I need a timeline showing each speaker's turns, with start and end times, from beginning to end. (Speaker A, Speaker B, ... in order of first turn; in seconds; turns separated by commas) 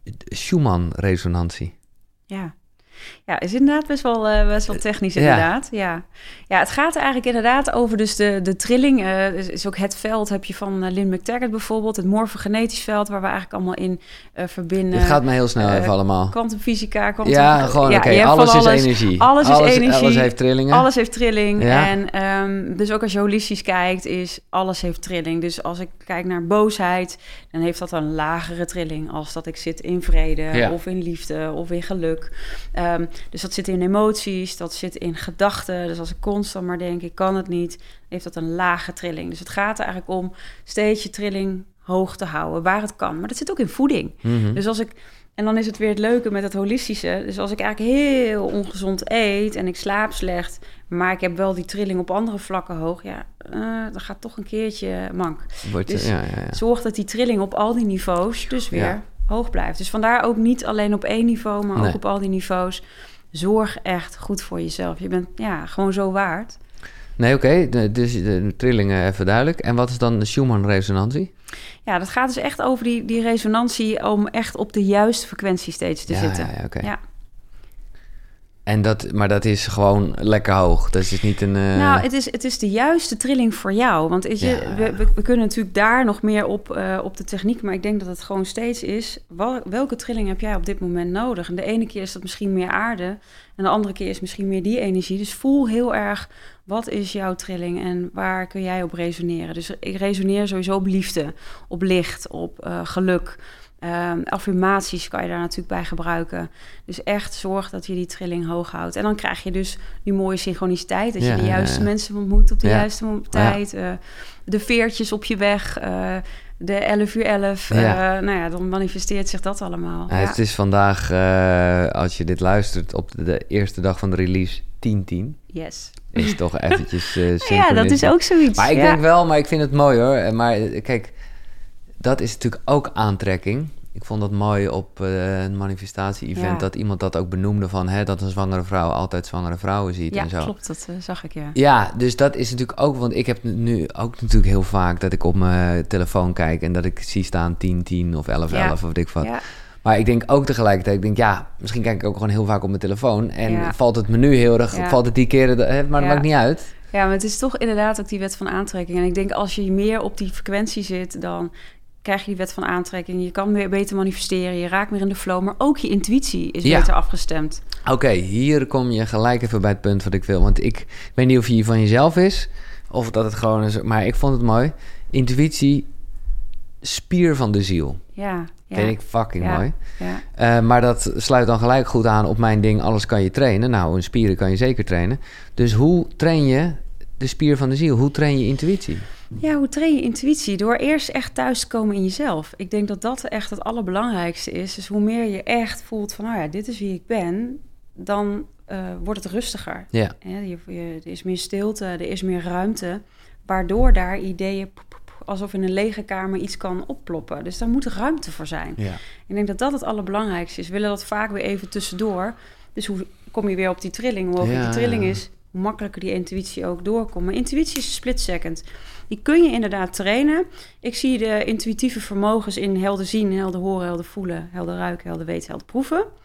Speaker A: 0.3-1.7, Speaker B: 2.3-2.5, Speaker B: 3.3-66.6, Speaker A: 5.2-5.4, Speaker A: 14.9-16.4, Speaker A: 17.2-20.9, Speaker A: 21.6-21.9, Speaker A: 44.2-44.6, Speaker A: 55.6-56.6, Speaker A: 67.2-71.3, Speaker B: 71.8-77.0, Speaker A: 76.1-76.9, Speaker A: 78.7-82.0, Speaker B: 81.7-120.3, Speaker A: 84.4-85.0, Speaker A: 111.2-111.9, Speaker A: 112.6-113.6, Speaker A: 117.7-118.0, Speaker A: 120.1-125.4, Speaker B: 125.5-126.4, Speaker A: 126.1-131.1, Speaker B: 127.4-129.0, Speaker A: 132.0-140.5, Speaker B: 136.3-136.6, Speaker B: 140.1-141.5, Speaker A: 141.5-149.3, Speaker B: 148.5-149.4, Speaker A: 149.8-156.7, Speaker B: 153.4-153.7, Speaker B: 154.7-155.0, Speaker B: 156.0-156.2, Speaker B: 156.8-161.5, Speaker B: 162.0-167.6, Speaker A: 166.6-166.9, Speaker A: 167.8-175.9, Speaker A: 176.8-178.0, Speaker B: 178.1-180.2, Speaker A: 178.7-179.8, Speaker A: 180.3-189.1, Speaker B: 189.4-226.1, Speaker A: 214.4-215.2